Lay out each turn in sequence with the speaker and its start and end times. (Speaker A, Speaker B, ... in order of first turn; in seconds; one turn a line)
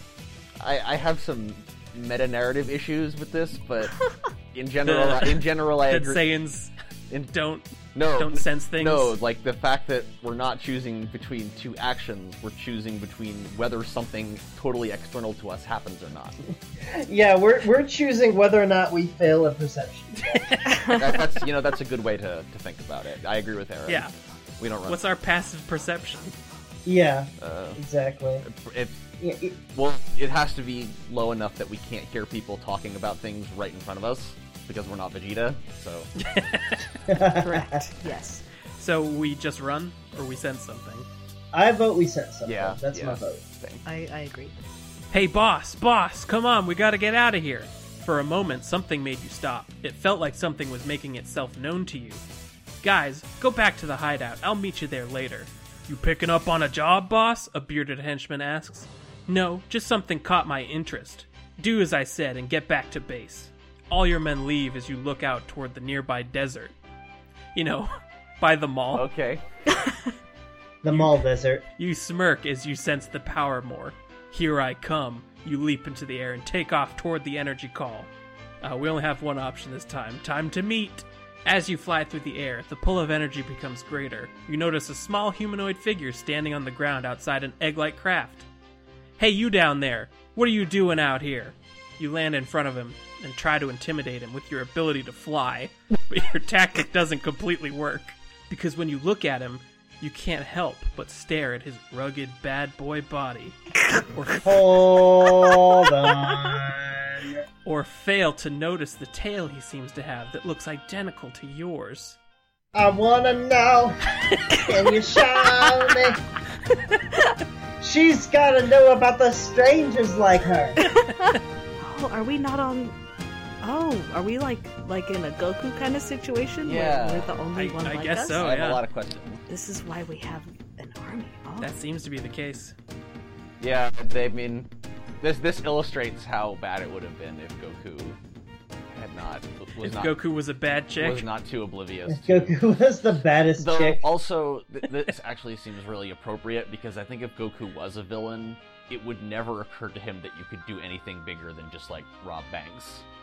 Speaker A: 0.6-4.0
Speaker A: 4.5-6.2
Speaker B: 4.8-6.7
Speaker B: 7.3-7.7
Speaker A: 8.0-16.4
Speaker B: 8.2-9.2
Speaker C: 16.8-20.8
Speaker B: 20.3-20.6
Speaker D: 20.7-21.0
Speaker A: 20.9-25.0
Speaker B: 24.9-26.4
Speaker C: 26.9-28.4
Speaker A: 27.4-27.8
Speaker A: 28.4-29.0
Speaker C: 29.2-29.6
Speaker A: 29.7-36.1
Speaker B: 36.2-36.9
Speaker C: 37.1-37.8
Speaker D: 37.4-38.4
Speaker B: 38.8-41.1
Speaker C: 41.5-43.4
Speaker A: 42.5-43.8
Speaker D: 43.9-44.6
Speaker B: 45.1-52.2
Speaker B: 52.8-66.7
Speaker B: 67.5-69.1
Speaker A: 68.9-69.4
Speaker C: 70.8-71.6
Speaker B: 70.9-71.2
Speaker B: 71.8-78.1
Speaker B: 78.6-88.5
Speaker B: 89.2-105.0
Speaker C: 104.4-107.4
Speaker B: 107.7-112.2
Speaker C: 112.7-116.2
Speaker C: 117.8-120.8
Speaker D: 120.9-123.0
Speaker D: 123.6-128.5
Speaker A: 126.6-127.4
Speaker B: 127.5-128.8
Speaker A: 128.3-129.4
Speaker D: 129.5-131.7
Speaker B: 131.6-132.8
Speaker A: 133.6-134.7
Speaker A: 135.2-138.2
Speaker A: 138.9-140.1
Speaker B: 139.8-141.3
Speaker A: 141.0-142.6
Speaker C: 142.1-144.0
Speaker A: 143.6-153.1